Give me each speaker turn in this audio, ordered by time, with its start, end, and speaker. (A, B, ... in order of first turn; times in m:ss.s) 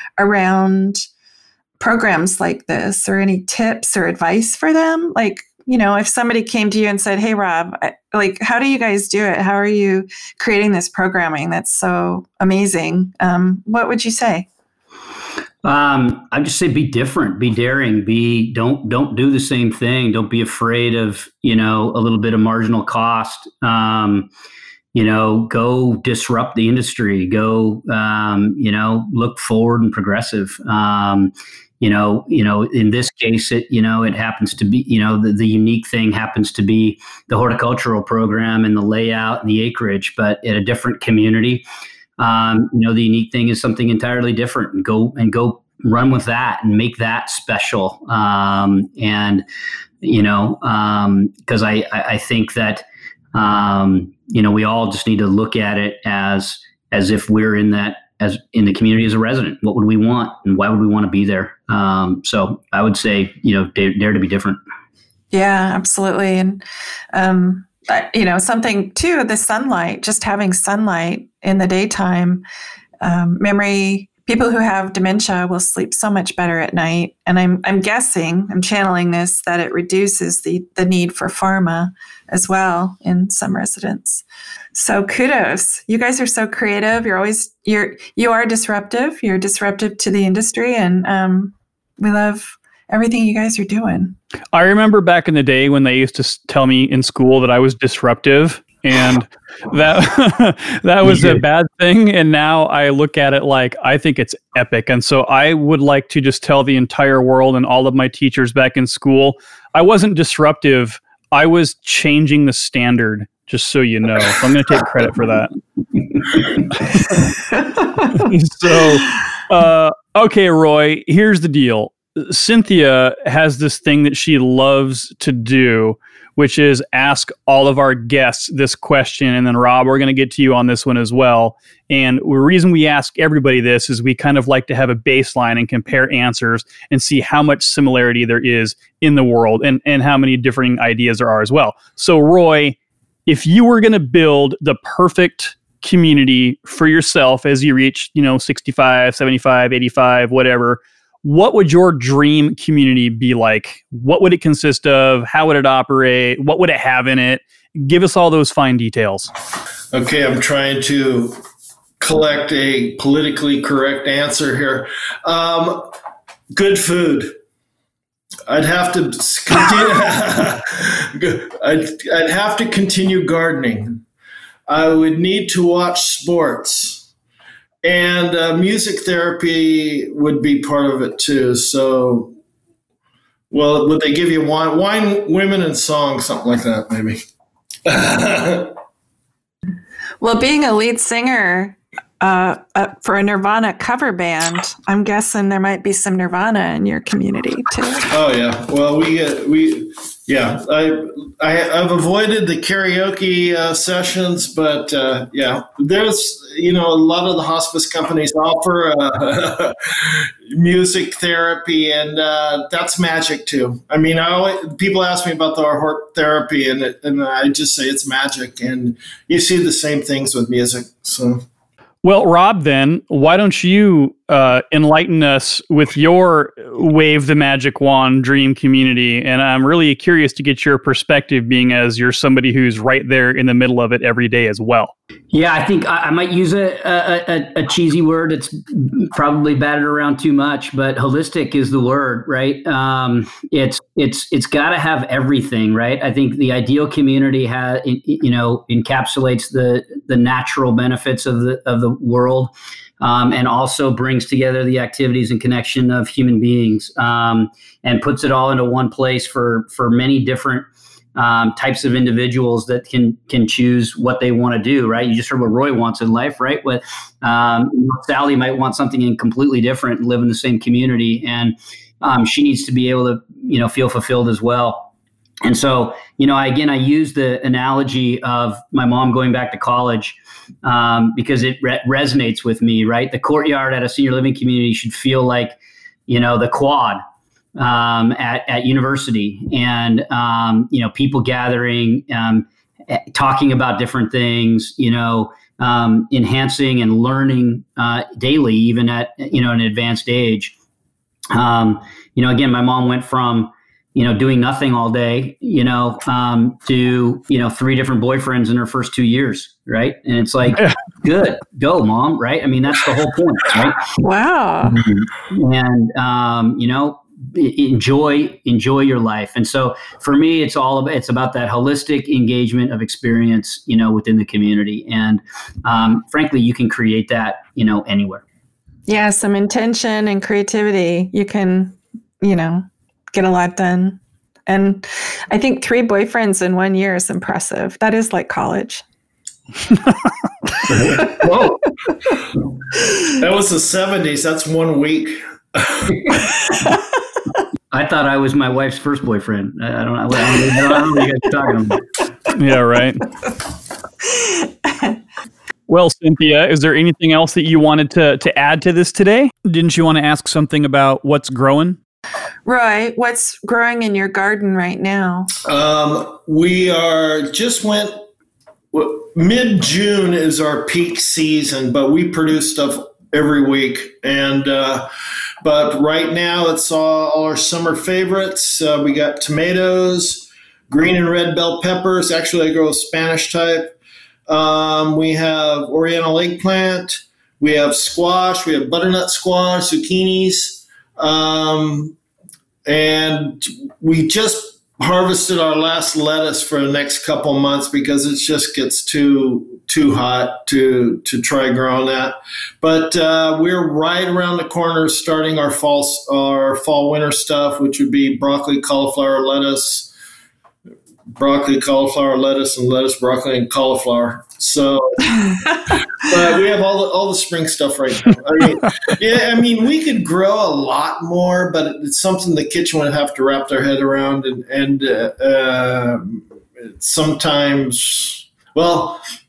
0:00.2-0:01.0 A
0:01.8-0:14.5 A
0:15.6-0:24.3 B
0:24.9-0:41.6 B
0:42.2-0:49.4 B
0:50.0-1:04.6 B
1:05.3-1:12.4 A
1:13.0-1:24.2 A
1:24.8-1:34.2 A
1:34.5-1:55.5 C
1:56.3-1:57.3 C
1:58.0-2:39.3 C
2:39.9-2:41.4 D
2:42.0-2:45.9 D
2:46.5-2:47.3 D
2:48.5-2:54.0 D
2:54.7-2:57.1 D
2:57.8-3:02.3 D
3:03.5-3:07.2 D
3:07.9-3:08.8 D
3:10.2-3:18.1 A
3:18.1-3:41.4 D
3:42.0-3:54.9 C
3:55.3-4:34.9 B
4:35.4-4:45.6 B
4:46.1-4:47.0 B
4:47.6-5:00.5 B
5:01.3-5:13.8 B
5:14.0-5:14.8 A
5:14.8-5:28.2 B
5:28.9-5:38.8 A
5:40.7-5:41.1 A
5:41.1-5:41.6 B
5:42.9-5:46.4 D
5:47.7-5:51.8 B
5:52.3-5:53.1 C
5:54.0-5:55.0 A
5:55.7-6:01.8 C
6:02.4-6:05.3 A
6:05.5-6:08.0 D
6:08.7-6:14.9 D
6:15.4-6:23.8 D
6:24.3-6:32.0 D
6:32.7-6:49.9 D
6:51.2-7:09.0 D